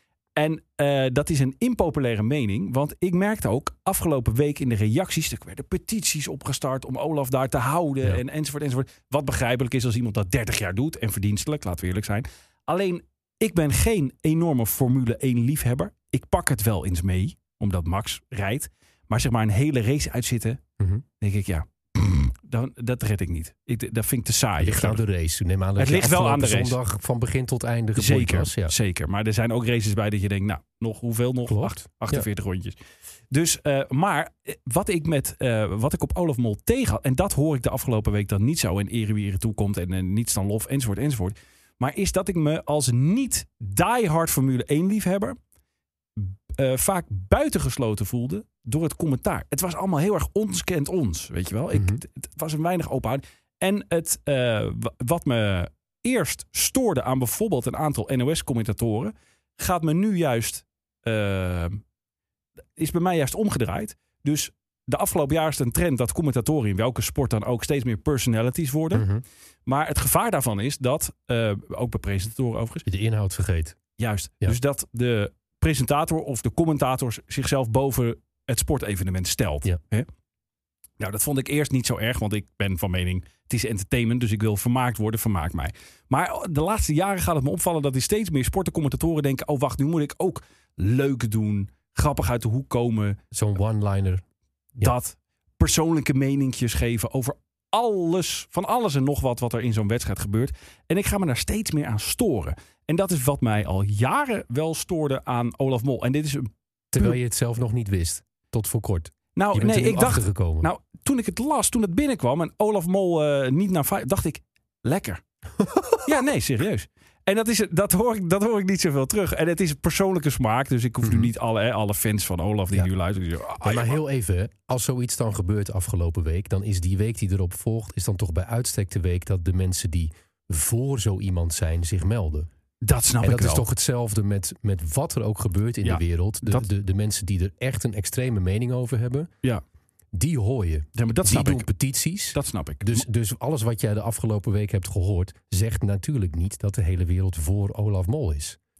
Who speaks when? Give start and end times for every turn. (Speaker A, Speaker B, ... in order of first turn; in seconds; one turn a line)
Speaker A: 0.3-20.6
Speaker A: 21.2-25.0
Speaker B: 24.6-28.7
Speaker A: 25.8-26.8
Speaker A: 27.9-32.8
Speaker B: 31.5-32.3
Speaker A: 33.3-45.4
Speaker A: 46.2-61.8
Speaker B: 51.7-52.0
Speaker A: 62.8-69.1
Speaker B: 68.9-69.2
Speaker A: 69.7-72.8
Speaker B: 72.8-73.8
Speaker A: 74.0-80.1
Speaker A: 81.0-93.2
Speaker B: 93.3-94.2
Speaker A: 94.8-107.2
Speaker B: 106.9-110.7
Speaker A: 109.3-115.2
Speaker A: 116.0-124.0
Speaker B: 121.0-121.3
Speaker B: 123.6-132.5
Speaker A: 132.8-133.7
Speaker B: 133.2-139.3
Speaker A: 135.8-136.7
Speaker B: 140.1-148.6
Speaker A: 140.9-141.7
Speaker A: 142.3-143.0